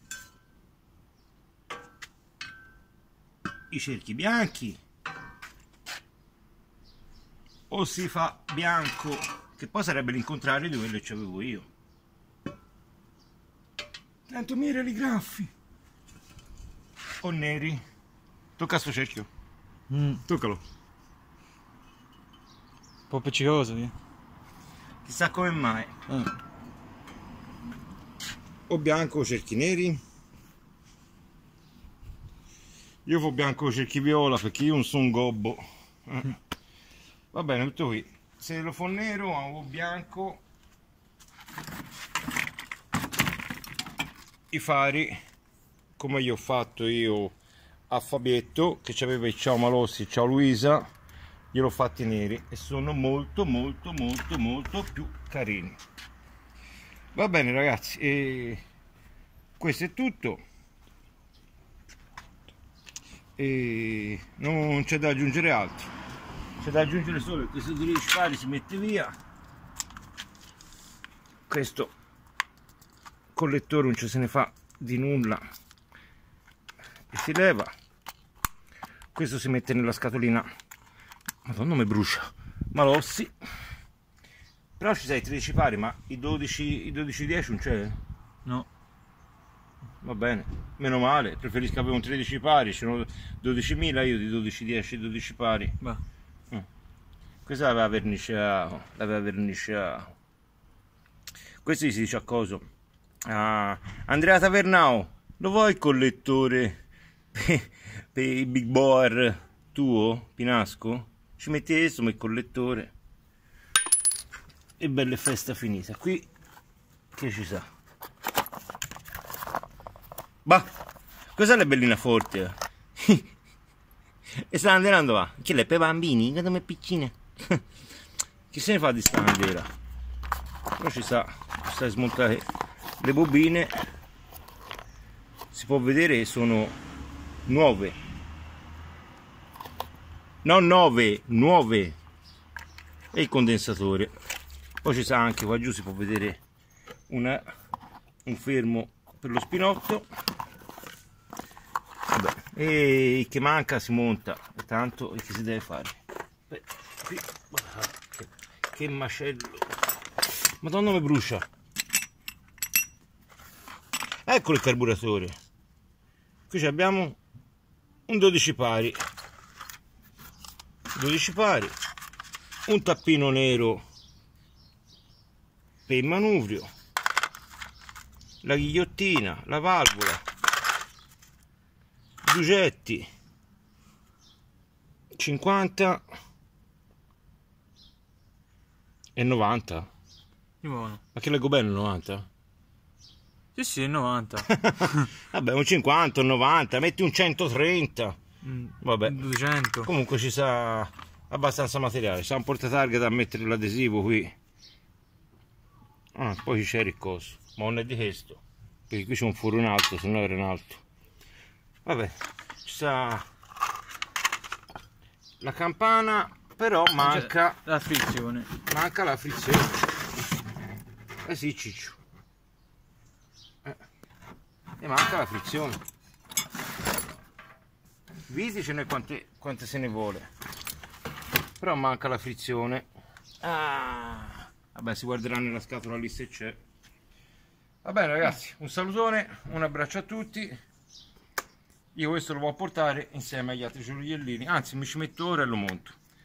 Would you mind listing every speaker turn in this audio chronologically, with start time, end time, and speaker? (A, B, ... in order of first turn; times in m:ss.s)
0:03.7-0:04.8 A
0:07.7-0:11.7 A
0:14.3-0:15.5 A
0:17.2-0:17.8 A
0:18.6-0:19.3 A
0:19.9-0:20.2 B
0:20.2-0:20.6 A
0:23.1-0:23.9 B
0:25.0-0:25.9 A
0:26.1-0:26.3 B
0:28.7-0:30.0 A
0:33.1-0:36.4 A
0:37.3-0:40.4 A
0:44.5-0:45.2 A
0:46.0-0:47.4 A
0:47.9-0:50.8 A
0:51.5-0:55.8 A
0:57.1-0:58.6 A
0:59.6-1:00.4 A
1:03.4-1:05.9 A
1:06.6-1:09.1 A
1:11.5-1:11.9 A
1:13.4-1:15.5 A
1:17.1-1:17.7 A
1:19.1-1:20.5 A
1:21.4-1:23.3 A
1:24.8-1:28.0 A
1:30.0-1:35.8 A
1:37.5-1:40.1 A
1:41.6-1:42.7 A
1:43.3-1:46.7 A
1:47.3-1:52.9 A
1:54.8-1:56.3 A
1:57.1-1:57.7 A
2:00.4-2:00.7 A
2:01.3-2:03.3 A
2:04.4-2:07.6 A
2:08.5-2:09.7 A
2:10.8-2:12.4 A
2:13.0-2:13.7 A
2:15.5-2:16.8 A
2:17.5-2:18.0 A
2:20.4-2:22.0 A
2:23.1-2:24.1 A
2:24.8-2:26.4 A
2:27.1-2:27.4 A
2:28.2-2:30.1 A
2:32.1-2:36.0 A
2:36.5-2:39.7 A
2:40.6-2:41.5 A
2:44.3-2:45.4 A
2:46.5-2:47.2 A
2:48.1-2:49.0 A
2:50.9-2:51.8 A
2:52.7-2:53.8 A
2:55.9-2:56.7 A
2:58.4-3:00.2 A
3:02.2-3:03.1 A
3:05.2-3:06.0 A
3:09.2-3:09.9 A
3:10.6-3:11.0 B
3:11.1-3:12.3 A
3:13.6-3:15.1 B
3:14.5-3:18.2 A
3:18.4-3:19.9 B
3:18.8-3:19.2 A
3:19.8-3:24.4 A
3:26.2-3:30.8 A
3:31.8-3:33.2 A
3:35.4-3:37.6 A
3:37.0-3:38.5 B
3:38.6-3:39.8 A
3:41.3-3:42.0 A
3:44.8-3:45.8 A
3:48.3-3:50.3 A
3:51.6-3:52.9 A
3:53.4-3:56.6 A
3:57.8-4:00.6 A
4:01.9-4:06.0 A